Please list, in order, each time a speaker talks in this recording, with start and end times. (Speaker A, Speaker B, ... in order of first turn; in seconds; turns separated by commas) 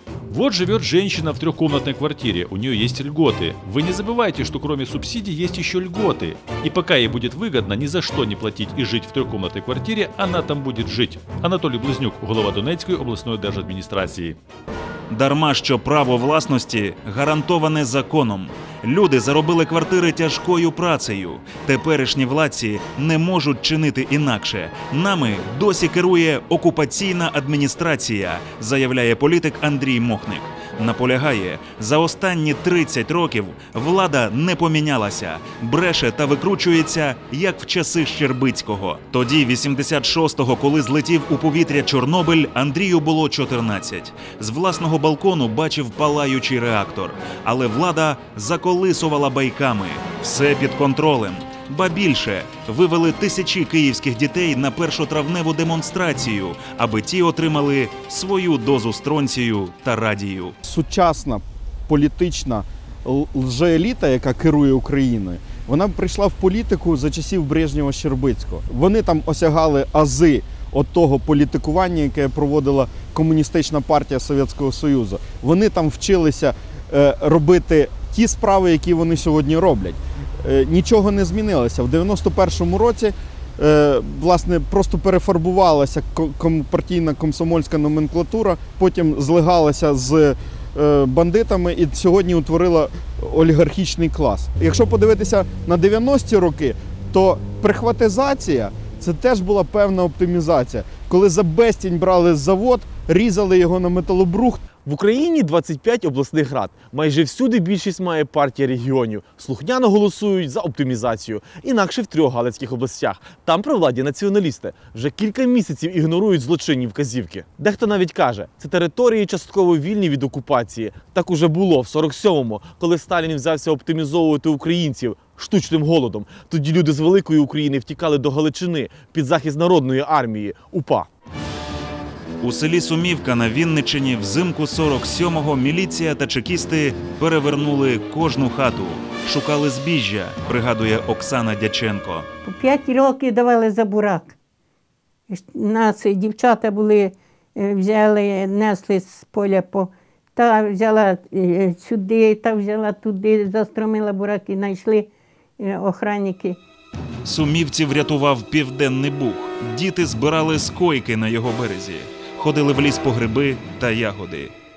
Speaker A: 0.3-14.4, Speaker B: 15.1-60.6, Speaker C: 60.6-104.6, Speaker D: 104.8-131.1, Speaker B: 132.4-142.3, Speaker E: 142.4-144.3, Speaker E: 145.3-156.6, Speaker B: 157.2-164.5